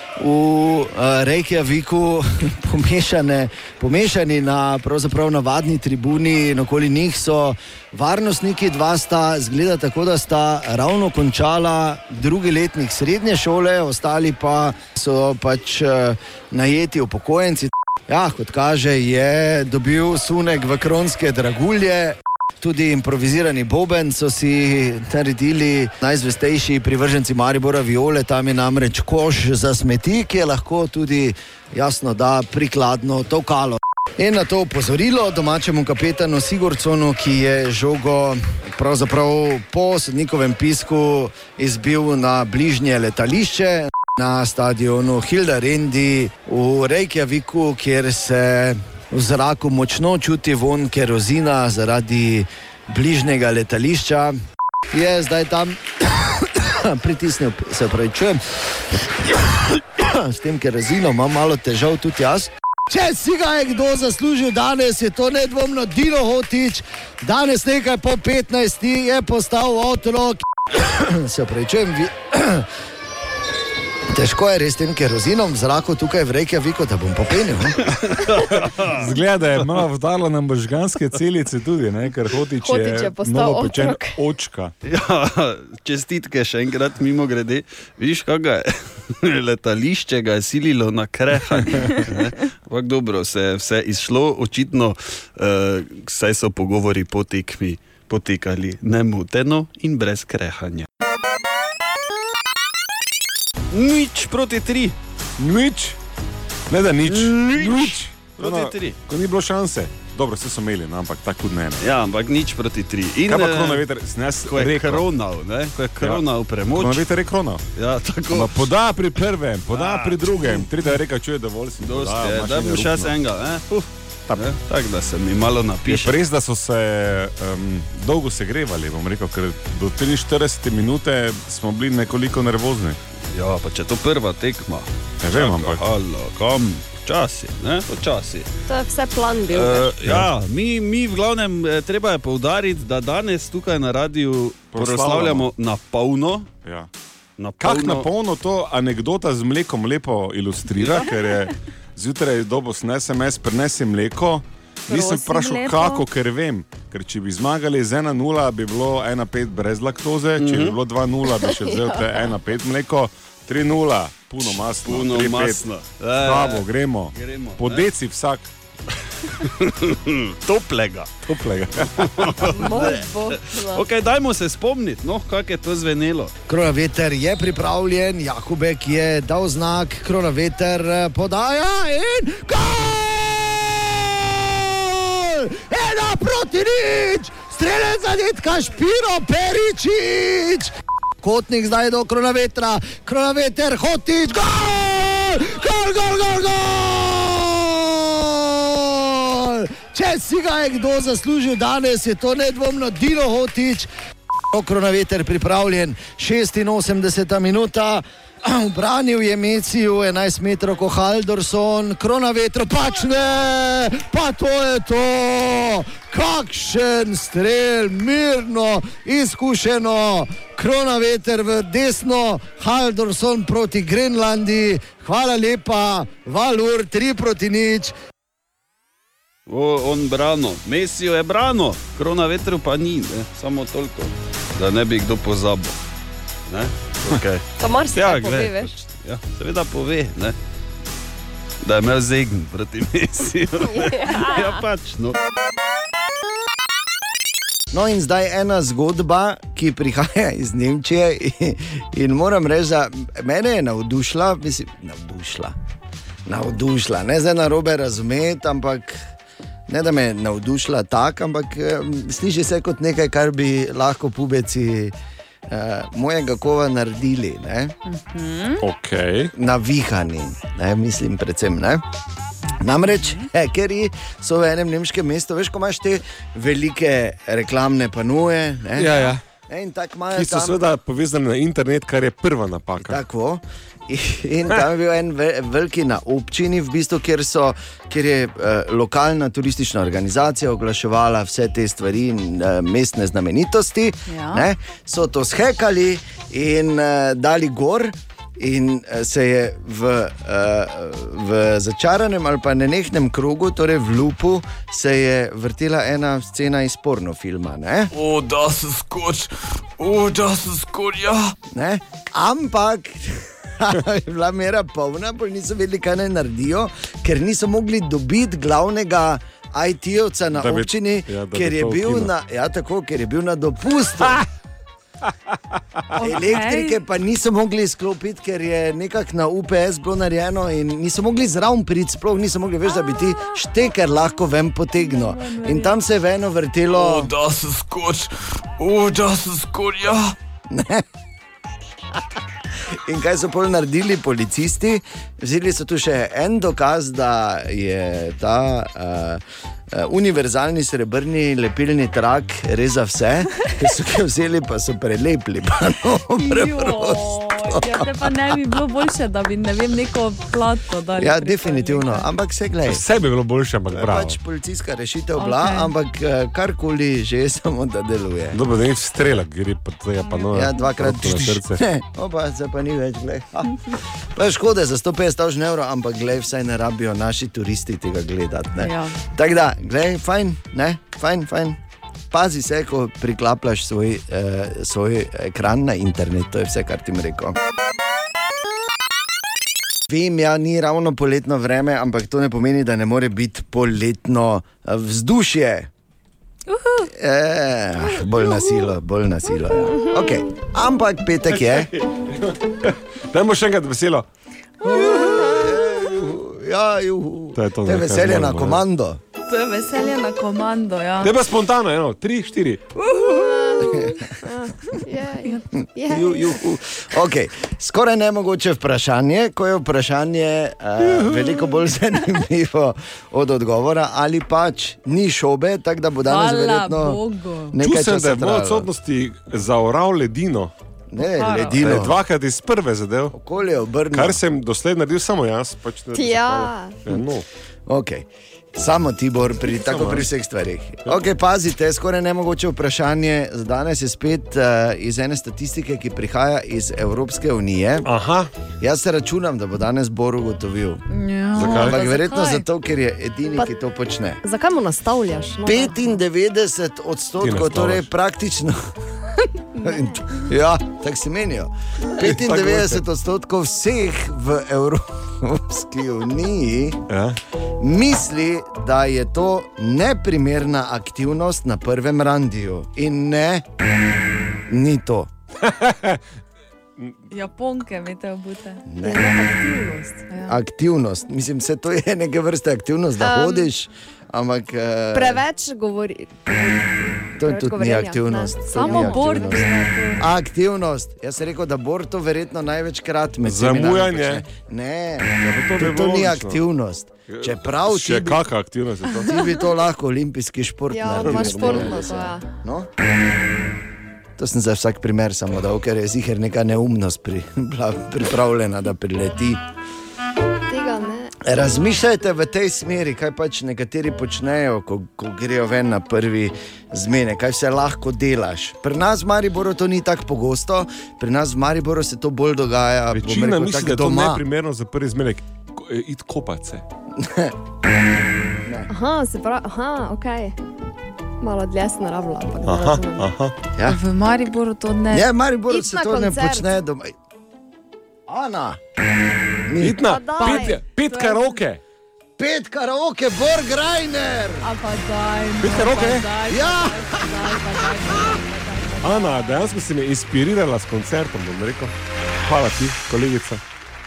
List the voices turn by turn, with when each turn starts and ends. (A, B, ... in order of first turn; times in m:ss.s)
0:00.2-0:54.4 A
0:54.9-1:12.7 A
1:14.1-1:17.8 A
1:17.9-1:19.1 B
1:18.8-1:24.7 C
1:22.6-1:24.2 D
1:24.8-1:40.9 B
1:31.8-1:32.1 C
1:43.7-1:45.0 B
1:45.4-1:46.0 C
1:46.7-1:51.9 C
1:47.1-1:49.0 B
1:51.8-1:53.9 B
1:53.3-1:55.1 C
1:54.5-1:57.0 B
1:56.0-1:57.6 C
1:57.8-1:58.7 B
1:58.3-2:03.1 C
1:59.7-2:00.7 B
2:01.8-2:06.2 B
2:05.8-2:13.0 C
2:13.3-2:18.5 B
2:15.2-2:15.8 C
2:18.7-2:19.9 D
2:19.5-2:26.5 B
2:20.0-2:20.3 C
2:24.7-2:25.5 C
2:27.4-2:28.1 B
2:27.6-2:45.6 C
2:30.8-2:31.1 B
2:34.9-2:36.0 E
2:40.4-2:40.8 B
2:41.2-2:42.3 D
2:44.4-2:47.9 B
2:46.2-2:48.5 C
2:49.2-2:51.1 B
2:51.3-2:52.6 C
2:51.8-2:56.3 B
2:52.5-2:53.8 D
2:56.5-3:23.9 A
3:24.5-3:48.0 A
3:49.5-3:55.8 B
3:56.5-4:00.4 B
3:57.6-3:58.8 D
4:01.6-4:05.2 B
4:03.6-4:04.6 D
4:07.7-4:15.5 A
4:16.3-4:19.1 A
4:19.7-4:25.0 A
4:25.5-4:27.7 A
4:27.9-4:28.6 E
4:28.6-4:29.3 C
4:29.4-4:31.8 A
4:32.6-4:40.7 A
4:32.9-4:33.3 E
4:38.8-4:39.2 C
4:40.1-4:43.0 C
4:42.8-5:07.9 A
4:54.1-4:54.5 E
5:07.9-5:11.3 F
5:11.5-5:24.2 A
5:20.4-5:22.1 C
5:26.0-5:26.8 E
5:26.0-5:37.1 A
5:34.8-5:35.8 E
5:36.7-5:40.1 F
5:40.5-5:40.8 A
5:42.7-5:58.1 A
5:56.2-6:02.1 E
6:01.0-6:02.8 A
6:02.7-6:04.2 C
6:03.7-6:08.4 A
6:05.2-6:05.7 E
6:08.3-6:11.6 C
6:10.3-6:21.6 A
6:18.6-6:19.0 E
6:22.1-6:27.4 A
6:29.9-6:35.7 A
6:36.5-6:36.9 E
6:36.8-6:41.7 A
6:41.3-6:44.1 C
6:44.7-6:49.0 A
6:44.7-6:45.0 C
6:47.4-6:48.6 C
6:49.3-6:51.2 E
6:51.0-6:52.6 C
6:52.9-6:53.6 E
6:53.0-6:56.3 D
6:53.6-6:54.1 A
6:55.9-7:07.0 A
7:06.0-7:07.6 E
7:07.5-7:08.7 A
7:07.6-7:10.5 C
7:10.9-7:12.0 A
7:11.0-7:11.8 E
7:11.6-7:13.1 C
7:13.1-7:14.2 A
7:13.9-7:17.2 C
7:15.9-7:16.8 D
7:17.7-7:27.9 A
7:19.4-7:20.1 C
7:27.8-7:28.3 C
7:28.6-7:30.8 A
7:30.9-7:32.4 E
7:31.3-7:31.8 C
7:31.4-7:34.2 A
7:34.2-7:35.9 D
7:35.4-7:38.6 A
7:37.2-7:37.9 C
7:39.6-7:40.2 D
7:39.6-7:46.8 A
7:41.9-7:42.8 C
7:46.9-7:47.2 C
7:47.6-7:53.5 A
7:54.5-7:55.1 A
7:55.4-7:56.0 C
7:57.1-7:58.6 E
7:58.7-7:59.1 A
7:58.8-8:00.0 D
8:00.1-8:00.4 E
8:00.3-8:05.2 A
8:03.0-8:03.5 D
8:04.9-8:09.6 D
8:07.2-8:18.2 A
8:08.6-8:10.1 E
8:13.2-8:14.3 C
8:15.2-8:16.4 C
8:17.1-8:19.2 C
8:19.0-8:22.7 A
8:20.7-8:22.3 D
8:21.0-8:22.0 C
8:24.2-8:29.4 A
8:30.5-8:31.1 D
8:31.2-8:44.2 A
8:42.9-8:46.6 C
8:47.0-8:47.4 A
8:48.7-8:50.4 D
8:51.2-8:53.1 D
8:52.4-8:53.3 C
8:53.6-8:53.8 A
8:53.6-8:55.1 E
8:54.9-8:56.9 A
8:55.5-8:56.5 D
8:58.1-8:58.6 A
8:59.5-8:59.8 A
8:59.6-9:01.6 C
8:59.8-9:00.6 D
9:00.2-9:01.4 E
9:02.2-9:04.5 A
9:04.4-9:09.6 E
9:05.4-9:06.1 C
9:06.3-9:07.1 A
9:08.8-9:11.7 C
9:12.2-9:13.4 C